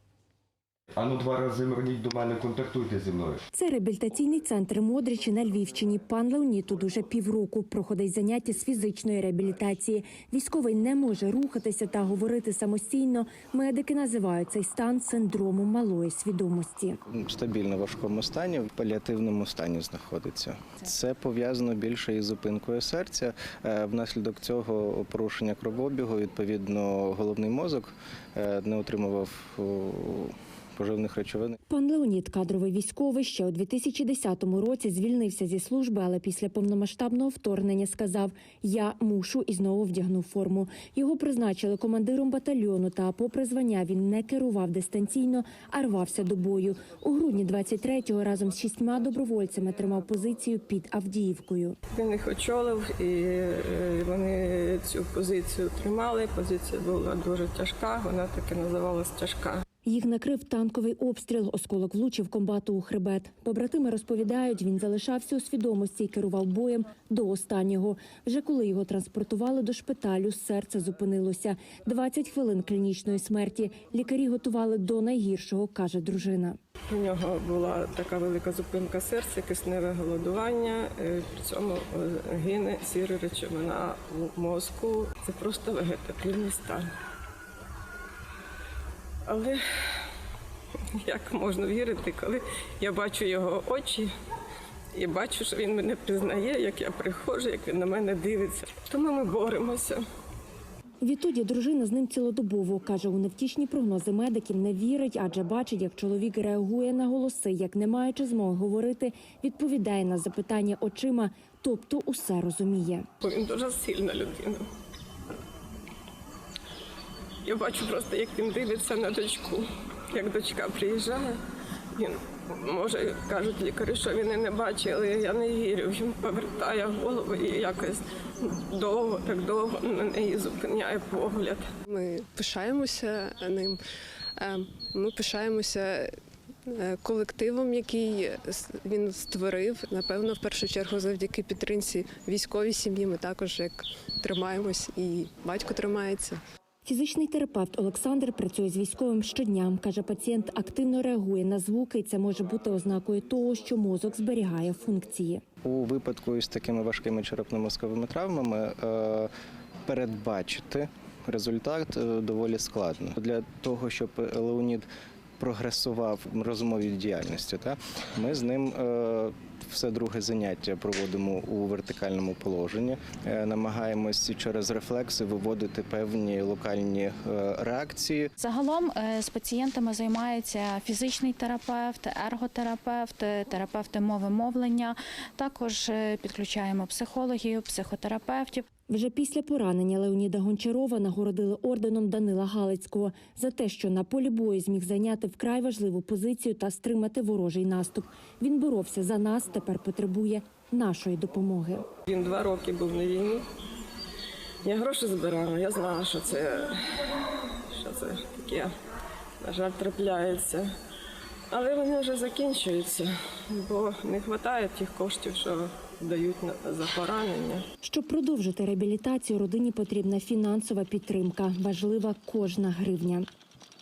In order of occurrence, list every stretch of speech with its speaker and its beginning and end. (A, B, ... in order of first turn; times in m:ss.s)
0:00.9-0:03.4 A
0:03.5-0:17.0 B
0:17.1-0:31.6 C
0:31.7-0:51.8 B
0:51.9-0:59.6 D
0:59.8-1:16.6 B
1:16.9-1:26.9 D
1:29.3-1:29.6 D
1:31.0-1:34.1 D
1:34.9-1:40.0 D
1:41.0-1:53.1 B
1:53.2-1:54.6 D
1:57.4-2:01.4 D
2:02.0-2:11.7 D
2:11.9-2:13.7 E
2:14.5-2:15.8 E
2:16.8-2:26.4 E
2:26.8-2:35.4 B
2:35.6-2:39.3 C
2:39.8-2:58.3 C
2:58.4-3:08.6 F
3:08.9-3:21.9 B
3:22.1-3:23.4 D
3:24.6-3:26.8 D
3:27.7-3:28.7 D
3:29.4-3:30.7 D
3:31.5-3:37.6 D
3:37.8-3:43.3 B